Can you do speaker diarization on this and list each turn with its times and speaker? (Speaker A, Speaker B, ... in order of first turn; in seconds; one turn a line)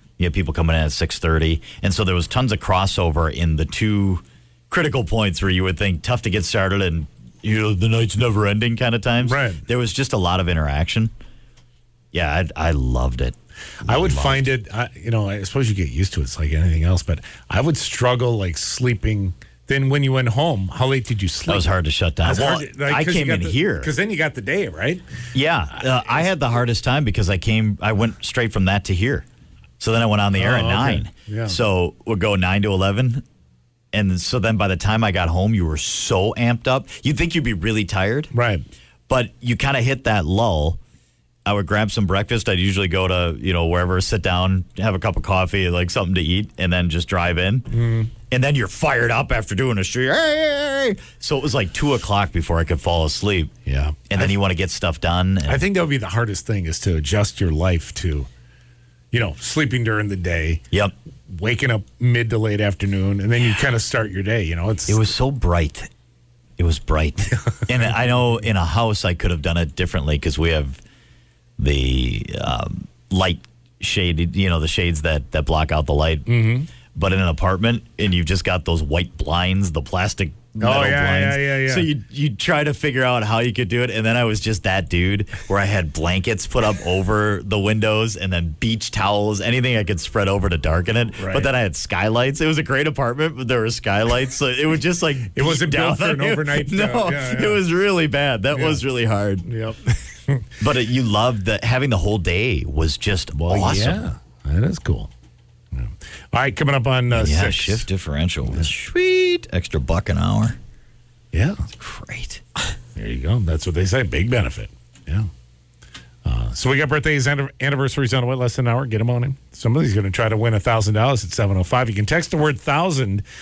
Speaker A: 0.2-11.1
Speaker B: 9.2-9.6
Speaker A: 12.1-13.3
Speaker B: 13.8-25.0
Speaker A: 13.8-14.4
Speaker A: 21.5-23.9
Speaker A: 25.3-29.2
Speaker B: 25.9-26.3
Speaker A: 29.8-33.2
Speaker B: 30.3-31.6
Speaker A: 33.9-38.3
Speaker B: 38.3-38.6
Speaker A: 39.1-40.8
Speaker A: 41.5-47.7
Speaker B: 47.7-48.1
Speaker A: 48.3-53.5
Speaker B: 53.6-54.4
Speaker A: 54.1-55.6
Speaker B: 55.5-58.3
Speaker B: 59.1-60.6
Speaker B: 61.3-65.0
Speaker A: 64.9-65.9
Speaker A: 66.6-70.8
Speaker A: 71.6-76.3
Speaker B: 76.3-76.7
Speaker A: 76.9-99.5
Speaker B: 80.6-81.9
Speaker B: 91.2-91.5
Speaker B: 95.3-97.6
Speaker B: 98.5-98.8
Speaker B: 99.4-100.4
Speaker A: 100.6-104.0
Speaker B: 103.3-105.1
Speaker B: 105.7-107.8
Speaker A: 107.1-110.6
Speaker B: 111.3-111.6
Speaker A: 111.7-112.4
Speaker B: 112.9-115.3
Speaker B: 116.2-123.2